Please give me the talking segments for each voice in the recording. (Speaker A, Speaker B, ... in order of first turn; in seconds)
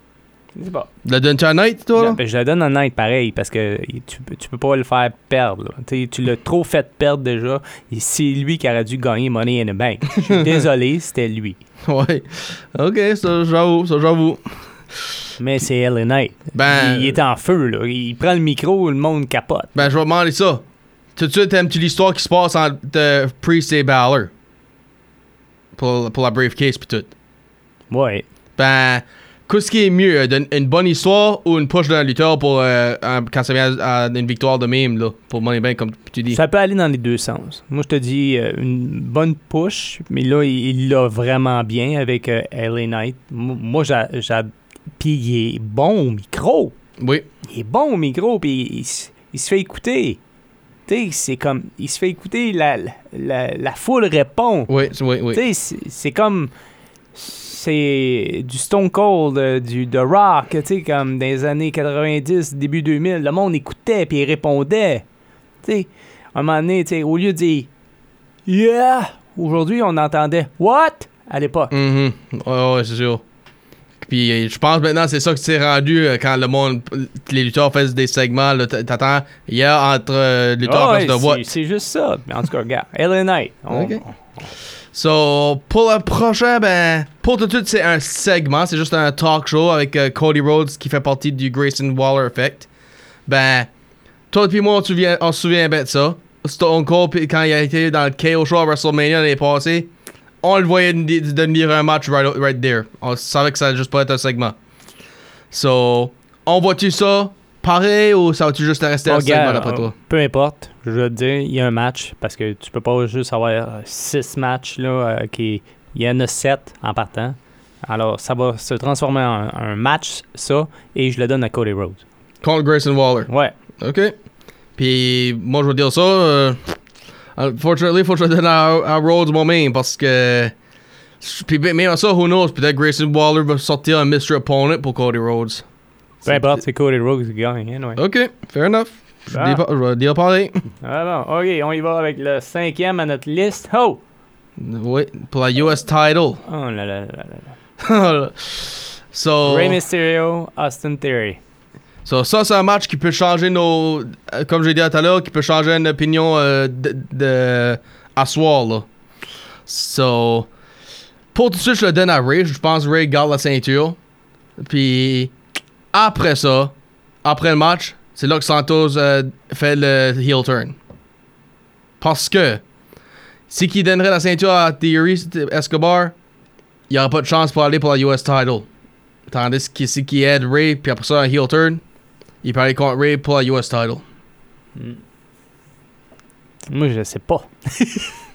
Speaker A: 0.6-0.9, 1.9-11.6, 15.4-19.9, 27.9-28.3, 36.3-46.8, 47.5-50.2, 50.9-54.7, 55.3-56.5, 57.1-65.0, 65.6-67.7, 68.5-71.7, 80.6-84.2, 109.1-122.0, 123.3-123.6, 136.2-138.0, 139.3-139.6, 140.8-144.0, 146.4-147.5, 149.4-151.4, 184.8-185.0, 186.7-188.2
Speaker B: 1.1-2.2, 10.2-10.7, 11.9-14.6, 16.5-17.2, 19.8-20.6, 21.2-24.3, 25.8-27.1, 28.6-36.4, 47.0-47.3, 54.7-55.4, 71.7-73.2, 74.0-81.5, 83.7-84.0, 84.9-92.7, 93.3-93.7, 94.3-99.9, 100.4-104.6, 105.5-109.9, 122.4-123.3, 123.8-124.1, 124.8-126.7, 127.4-130.5, 131.2-135.6, 136.3-136.5, 138.0-140.7, 144.6-146.4, 147.8-149.8, 152.1-158.9, 159.7-160.5, 161.3-164.0, 164.6-165.3, 165.9-166.7, 167.2-170.8, 172.0-172.6, 173.5-176.1, 176.9-178.7, 179.3-181.8, 182.4-184.0